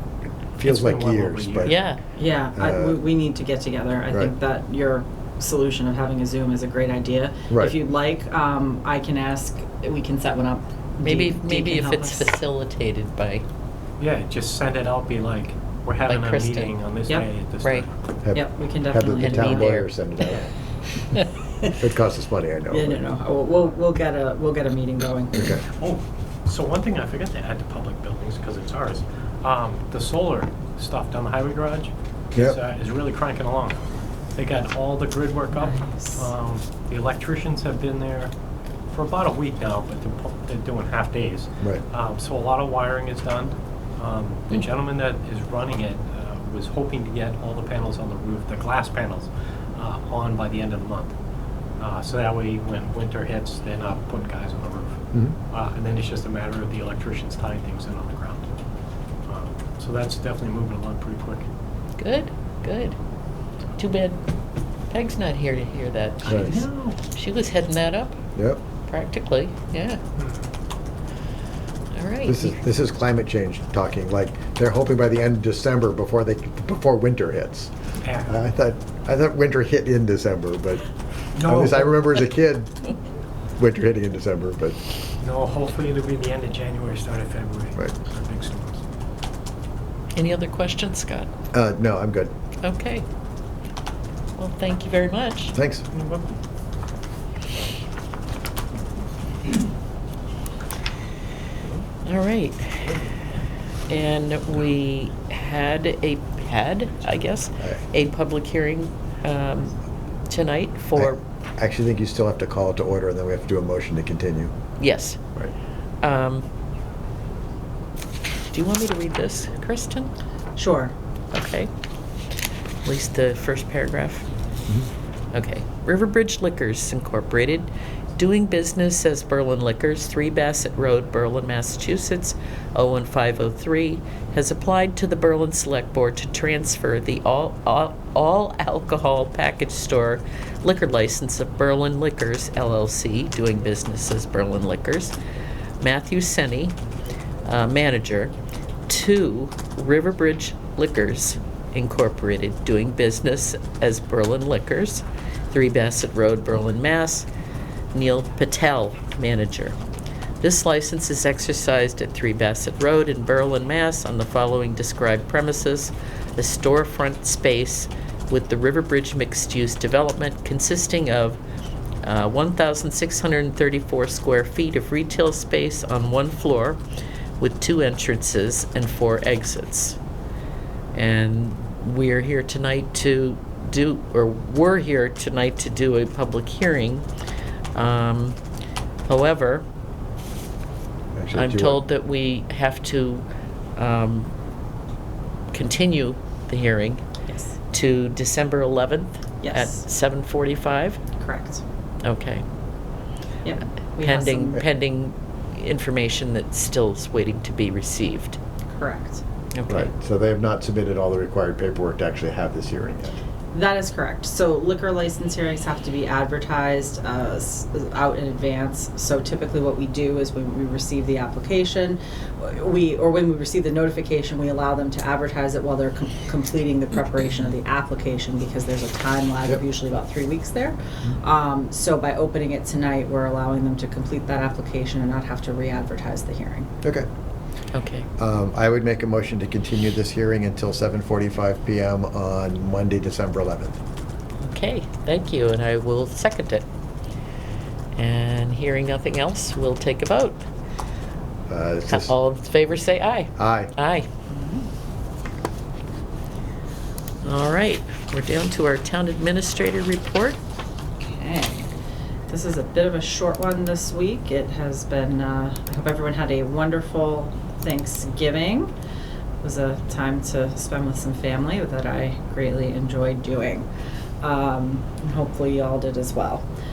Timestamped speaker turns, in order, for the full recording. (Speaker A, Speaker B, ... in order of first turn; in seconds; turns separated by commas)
Speaker A: 0.6-1.8, Speaker B: 0.6-1.8, Speaker C: 1.6-2.0, Speaker D: 2.2-12.3, Speaker A: 2.6-3.0, Speaker C: 11.0-13.4, Speaker B: 14.0-17.9, Speaker C: 16.1-16.7, Speaker A: 18.2-20.5, Speaker D: 18.3-20.3, Speaker C: 19.2-19.9, Speaker A: 21.8-23.0, Speaker D: 22.7-25.6, Speaker B: 25.8-33.8, Speaker B: 34.3-38.3, Speaker D: 35.5-36.3, Speaker B: 38.9-51.1, Speaker B: 51.8-58.5, Speaker B: 59.3-61.5, Speaker C: 62.0-63.0, Speaker C: 63.8-64.2, Speaker C: 64.9-68.2, Speaker B: 66.3-67.0, Speaker C: 68.9-70.0, Speaker B: 70.2-70.5, Speaker C: 71.9-72.5, Speaker A: 72.3-77.7, Speaker B: 78.0-78.3, Speaker A: 78.2-80.8, Speaker B: 81.4-81.9, Speaker A: 81.4-82.7, Speaker A: 83.6-84.8, Speaker B: 85.2-88.8, Speaker C: 90.2-91.3, Speaker A: 91.5-92.3, Speaker C: 92.6-93.0, Speaker C: 94.4-95.6, Speaker A: 95.5-95.8, Speaker B: 95.9-96.4, Speaker C: 102.0-103.0, Speaker C: 103.9-109.8, Speaker C: 110.3-111.2, Speaker A: 111.0-114.5, Speaker C: 114.8-115.2, Speaker C: 116.0-116.5, Speaker C: 118.5-120.1, Speaker D: 120.6-120.9, Speaker C: 121.3-121.7, Speaker C: 122.8-124.3, Speaker C: 125.3-145.2, Speaker C: 145.8-146.8, Speaker C: 147.4-148.3, Speaker C: 148.9-157.3, Speaker C: 157.9-159.8, Speaker C: 160.4-171.4, Speaker C: 172.0-176.8, Speaker C: 177.4-180.0, Speaker C: 180.9-187.1, Speaker C: 187.8-188.4, Speaker C: 189.1-189.7, Speaker A: 191.2-191.8, Speaker C: 191.3-193.2, Speaker C: 193.8-194.3, Speaker C: 195.5-197.0, Speaker D: 197.3-197.6, Speaker C: 197.7-201.0, Speaker D: 199.4-199.8, Speaker D: 201.2-201.6, Speaker C: 202.0-202.4, Speaker D: 203.4-204.6, Speaker C: 204.0-208.4, Speaker D: 208.7-209.2, Speaker C: 209.6-209.9, Speaker A: 209.7-213.2, Speaker D: 213.5-236.7, Speaker C: 237.7-238.1, Speaker A: 238.2-243.8, Speaker C: 244.4-246.7, Speaker C: 248.0-250.4, Speaker A: 251.5-252.2, Speaker C: 251.9-254.1, Speaker A: 253.4-253.7, Speaker D: 254.3-254.7, Speaker C: 257.2-260.4, Speaker D: 261.0-261.7, Speaker D: 262.3-268.7, Speaker D: 269.4-273.7, Speaker D: 274.2-276.4